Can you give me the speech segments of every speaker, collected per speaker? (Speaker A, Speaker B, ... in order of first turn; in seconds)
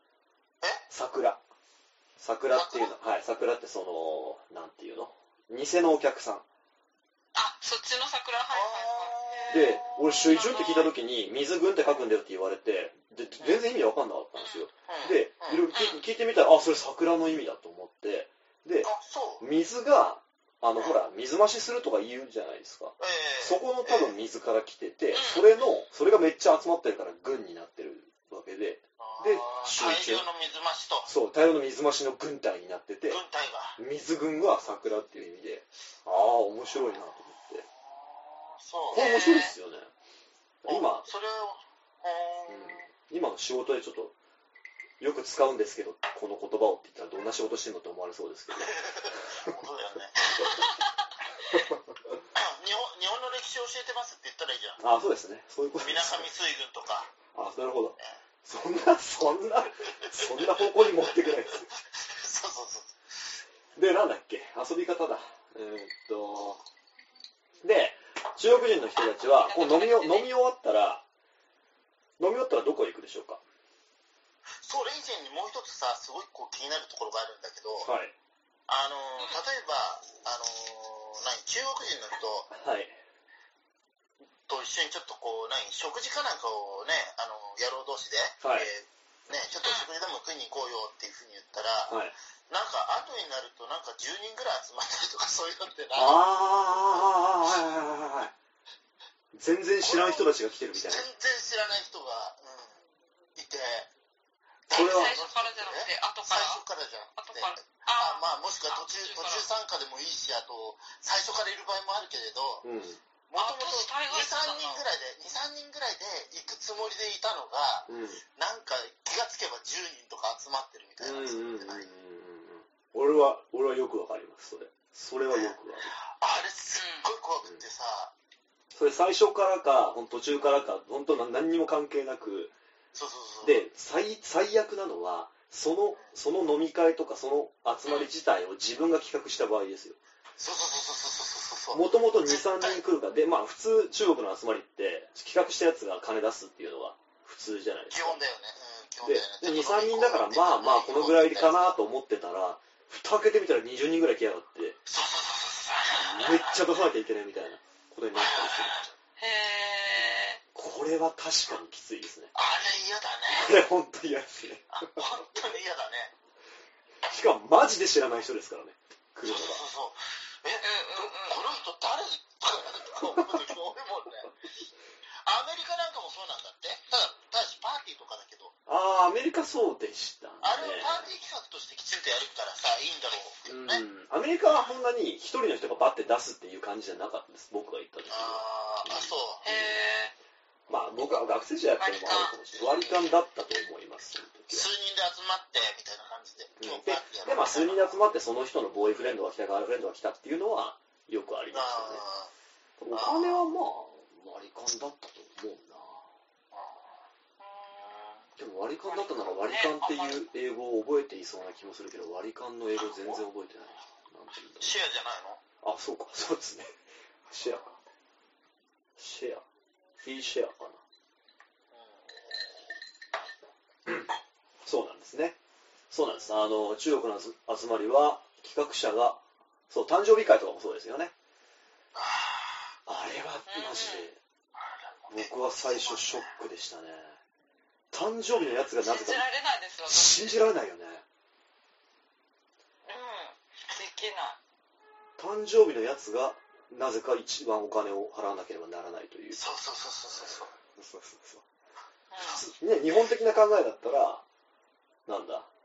Speaker A: 0.9-1.4, 2.2-6.4, 9.5-18.9, 19.4-30.2, 31.1-33.2, 33.8-37.7, 38.9-39.9, 40.6-41.1, 42.5-44.1, 45.0-49.5, 51.5-51.8, 54.8-56.3, 57.3-61.7, 63.8-66.6, 67.6-71.0, 72.2-73.4, 77.8-78.1, 82.5-83.0, 88.4-88.7, 91.9-92.1, 95.9-98.3, 99.3-101.1, 104.7-105.2, 112.6-113.0, 117.9-118.2, 121.0-125.9, 128.8-132.5, 133.4-140.0, 141.7-148.2, 149.0-154.8, 155.9-158.8, 160.5-162.3, 163.3-165.1, 167.1-169.7, 173.1-173.4, 178.7-181.1, 183.5-189.8, 190.7-194.7, 196.6-202.0, 202.8-206.1, 208.4-214.8, 215.6-216.8, 217.3-217.8, 219.0-219.4, 220.0-220.8, 224.7-225.4, 225.9-231.1, 232.9-234.2, 235.1-237.2, 237.9-239.3, 239.9-241.1, 245.2-249.4, 250.8-251.4, 252.2-254.2, 255.1-255.5
Speaker B: 2.5-2.9, 8.5-10.3, 14.9-15.7, 18.8-19.4, 23.0-24.1, 29.0-31.1, 33.1-33.8, 38.0-39.1, 40.7-42.9, 48.5-50.6, 52.3-54.8, 55.8-57.1, 60.0-63.0, 74.6-77.9, 78.7-82.5, 84.5-92.0, 92.5-96.2, 96.9-97.6, 99.8-102.8, 103.4-103.9, 104.7-112.7, 113.3-121.9, 125.3-128.1, 132.9-133.7, 140.4-142.8, 147.9-151.8, 154.9-156.6, 158.2-158.9, 162.3-163.6, 164.7-166.1, 169.2-174.3, 175.2-178.5, 180.4-183.8, 188.1-189.4, 194.5-197.9, 201.5-202.3, 202.9-203.5, 206.5-206.9, 212.9-213.2, 214.6-215.4, 221.7-222.6, 231.9-232.7, 234.6-236.3, 249.3-250.5
Speaker C: 7.3-10.9, 14.4-14.7, 15.7-16.0, 25.1-25.5, 38.9-39.6, 69.0-70.3, 104.7-106.6, 107.2-109.5, 113.4-114.8, 126.8-127.1, 159.2-160.4, 170.6-171.4, 189.4-190.1, 191.8-192.4, 207.4-208.2, 208.9-210.2, 233.5-234.1, 238.8-240.4, 242.9-244.4, 252.1-252.4